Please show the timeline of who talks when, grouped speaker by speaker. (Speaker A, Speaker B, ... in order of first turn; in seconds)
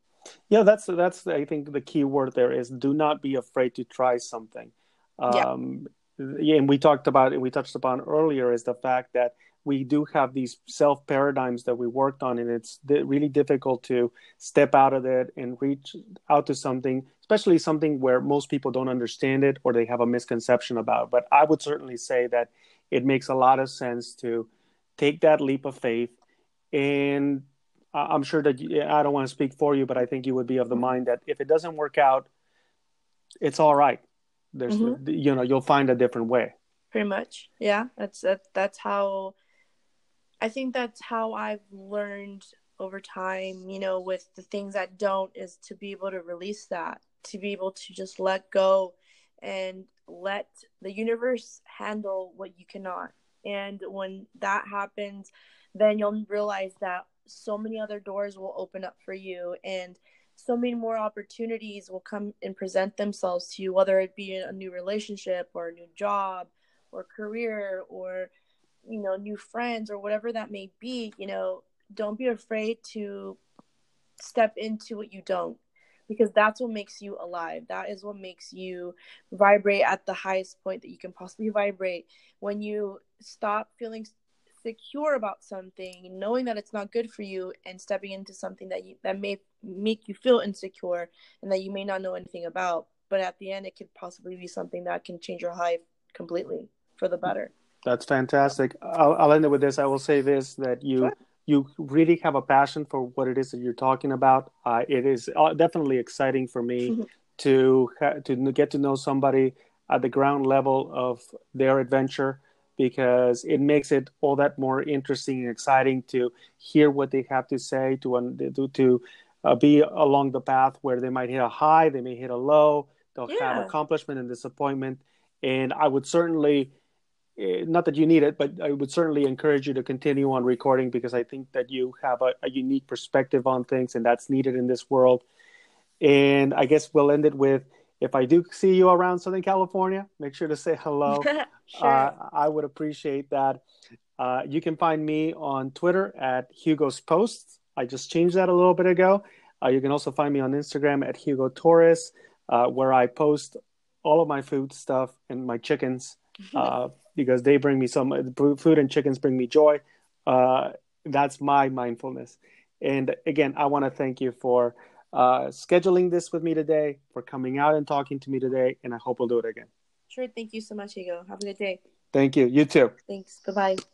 Speaker A: 0.5-26.1, 26.7-32.3, 33.4-36.5, 97.8-126.7, 127.4-135.2, 136.0-143.6, 144.2-169.7, 172.1-172.9
Speaker B: 34.7-35.0, 36.9-39.3, 40.4-68.3, 68.8-73.4, 74.2-97.5, 123.3-123.7, 141.1-142.1, 170.1-171.8, 173.1-173.8